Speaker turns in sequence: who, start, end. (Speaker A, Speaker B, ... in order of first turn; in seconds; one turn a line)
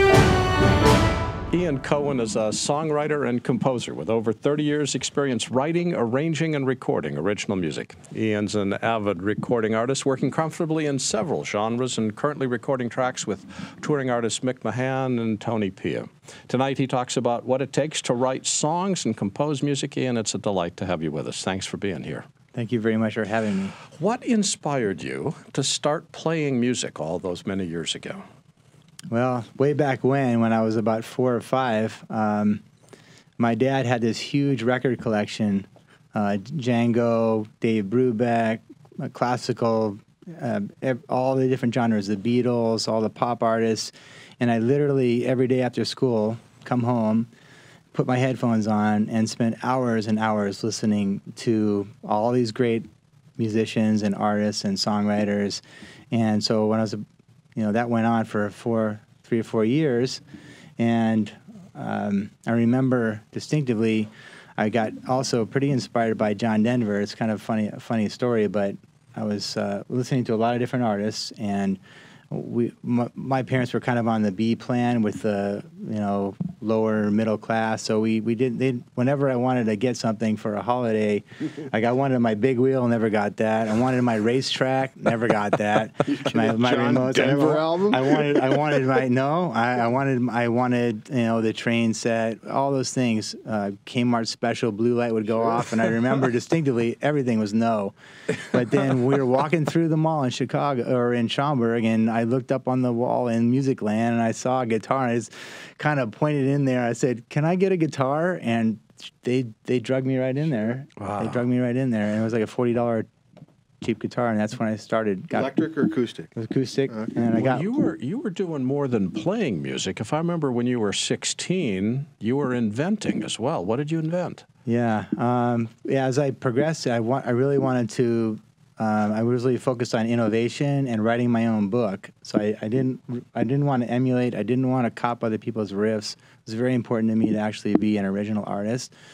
Speaker A: 1.5-22.2
Speaker B: 22.5-23.8
Speaker A: 23.9-28.2
Speaker B: 29.1-32.6
Speaker B: 33.4-47.3
Speaker B: 47.9-52.9
Speaker B: 53.4-57.0
Speaker B: 57.5-60.2
Speaker B: 60.8-71.8
Speaker B: 72.3-113.1
Speaker C: 86.0-88.5
Speaker A: 111.0-111.4
Speaker B: 113.8-115.5
Speaker C: 115.3-116.3
Speaker B: 116.3-117.7
Speaker C: 116.9-117.2
Speaker A: 117.3-124.4
Speaker B: 124.7-138.9